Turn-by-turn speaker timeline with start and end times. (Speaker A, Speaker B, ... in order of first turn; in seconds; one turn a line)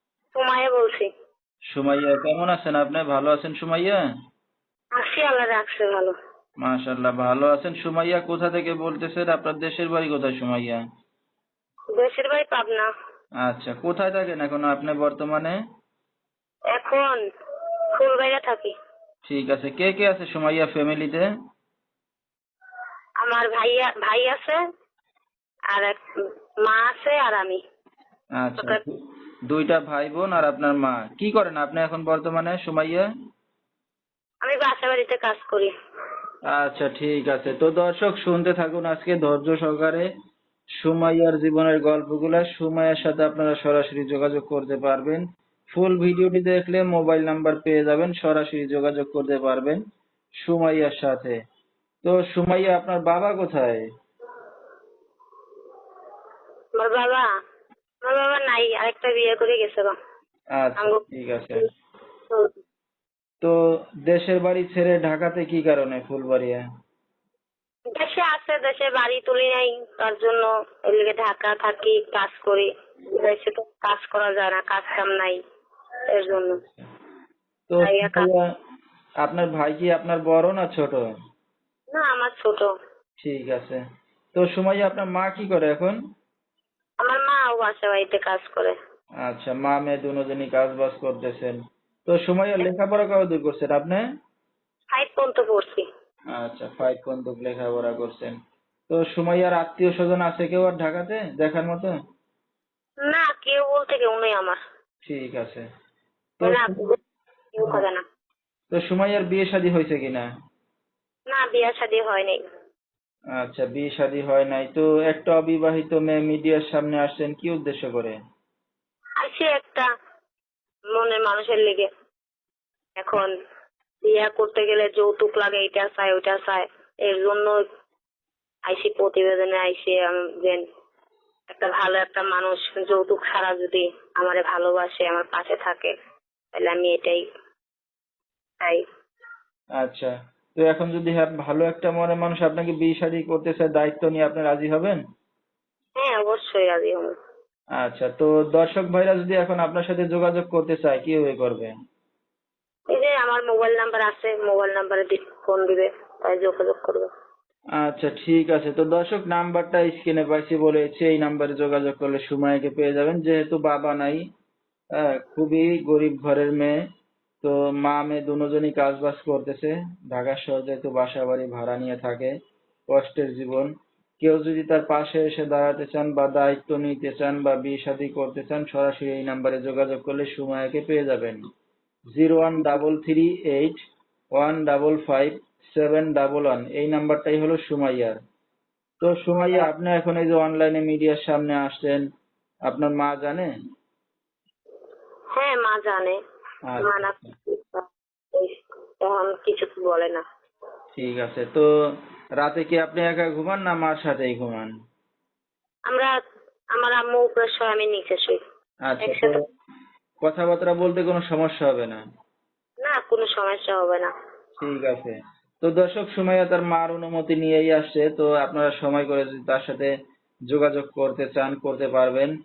Speaker A: 0.3-1.1
Speaker B: 1.7-4.0
Speaker A: 5.0-6.1
Speaker B: 6.6-10.8
Speaker A: 11.9-12.9
Speaker B: 13.4-15.5
Speaker A: 16.7-17.2
Speaker A: 18.0-18.7
Speaker B: 19.2-21.2
Speaker A: 23.2-24.6
Speaker A: 25.7-26.0
Speaker A: 26.6-27.6
Speaker B: 28.4-28.9
Speaker B: 29.5-33.1
Speaker A: 34.4-35.7
Speaker B: 36.5-40.1
Speaker B: 40.8-45.2
Speaker B: 45.7-49.8
Speaker B: 50.4-51.3
Speaker B: 52.0-53.8
Speaker A: 56.8-57.2
Speaker A: 58.0-59.9
Speaker B: 60.6-61.6
Speaker B: 64.1-66.6
Speaker A: 67.9-75.4
Speaker A: 76.1-76.6
Speaker B: 76.3-76.8
Speaker B: 77.7-78.4
Speaker A: 77.8-78.3
Speaker B: 79.2-81.0
Speaker A: 81.9-82.7
Speaker B: 83.2-83.8
Speaker B: 84.3-86.0
Speaker A: 87.0-88.8
Speaker B: 89.2-94.0
Speaker A: 94.9-95.8
Speaker B: 96.3-98.3
Speaker B: 98.9-101.9
Speaker A: 103.1-104.6
Speaker B: 105.0-105.6
Speaker B: 106.4-106.8
Speaker A: 106.4-107.0
Speaker A: 107.5-108.0
Speaker B: 108.7-110.3
Speaker A: 111.3-112.4
Speaker B: 113.4-118.2
Speaker A: 119.2-119.9
Speaker A: 120.9-121.9
Speaker A: 123.0-123.3
Speaker A: 124.0-127.7
Speaker A: 128.7-130.6
Speaker A: 131.5-135.9
Speaker A: 136.5-137.2
Speaker B: 139.8-145.0
Speaker A: 146.0-147.2
Speaker B: 147.8-151.7
Speaker A: 152.9-157.1
Speaker B: 157.8-164.2
Speaker B: 164.9-166.8
Speaker B: 167.4-172.3
Speaker B: 172.9-173.7
Speaker B: 174.2-181.4
Speaker B: 182.1-183.8
Speaker B: 184.4-188.2
Speaker B: 189.0-192.0
Speaker B: 192.7-193.5
Speaker A: 195.3-196.2
Speaker B: 196.7-197.3
Speaker A: 196.8-200.2
Speaker B: 200.9-201.7
Speaker B: 202.4-204.7
Speaker A: 206.8-208.4
Speaker B: 208.9-209.4
Speaker A: 209.0-209.4
Speaker B: 210.2-212.0
Speaker A: 212.8-214.1
Speaker B: 214.6-219.9
Speaker B: 220.5-222.3